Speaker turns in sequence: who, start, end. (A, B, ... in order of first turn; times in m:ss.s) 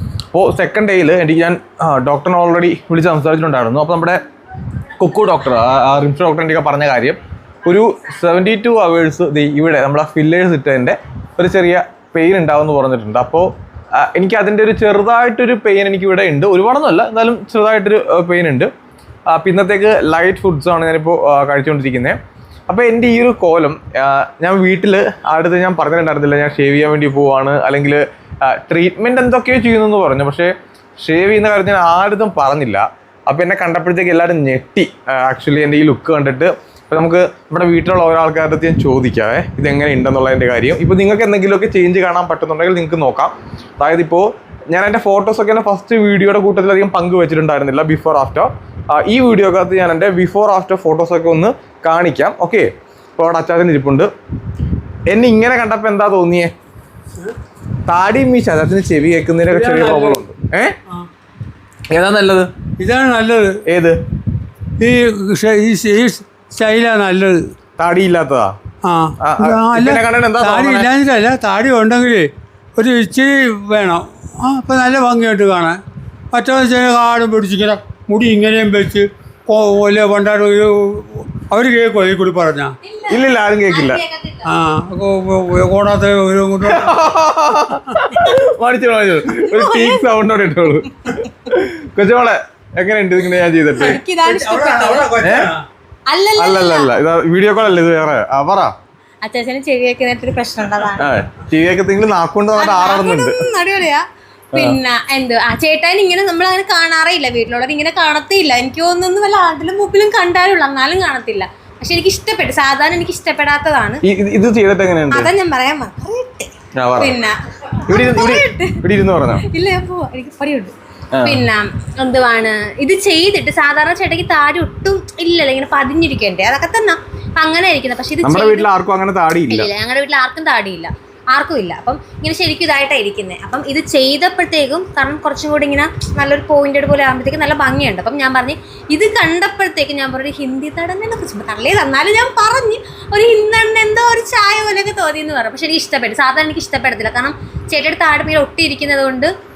0:00.3-0:04.2 A
0:05.0-0:18.7 A
0:19.3-0:22.2 A
0:22.7-0:54.1 A
0:55.1-0:56.5 A
0:57.9-1:00.8 A
0:59.5-1:00.3 B
1:01.9-1:02.5 A
1:02.8-1:03.6 B
1:03.7-1:04.0 A
1:04.8-1:07.4 B
1:07.8-1:08.6 A
1:08.8-1:15.8 B
1:09.2-1:10.9 A
1:16.3-1:22.8 B
1:22.8-1:24.5 C
1:23.1-1:24.0 A
1:24.4-1:27.0 B
1:26.6-1:34.0 A
1:29.4-1:30.1 C
1:33.8-1:35.6 B
1:33.8-1:35.2 C
1:35.2-1:35.5 A
1:36.1-1:36.9 C
1:36.4-1:38.7 A
1:39.2-1:41.2 C
1:41.0-1:43.4 A
1:42.6-1:54.0 C
1:44.5-1:44.8 A
1:54.0-1:55.3 A
1:55.1-1:58.8 C
1:56.8-1:57.2 A
1:57.9-1:59.4 A
1:59.4-2:08.7 C
2:01.1-2:01.4 A
2:08.2-2:09.7 A
2:09.5-2:29.3 C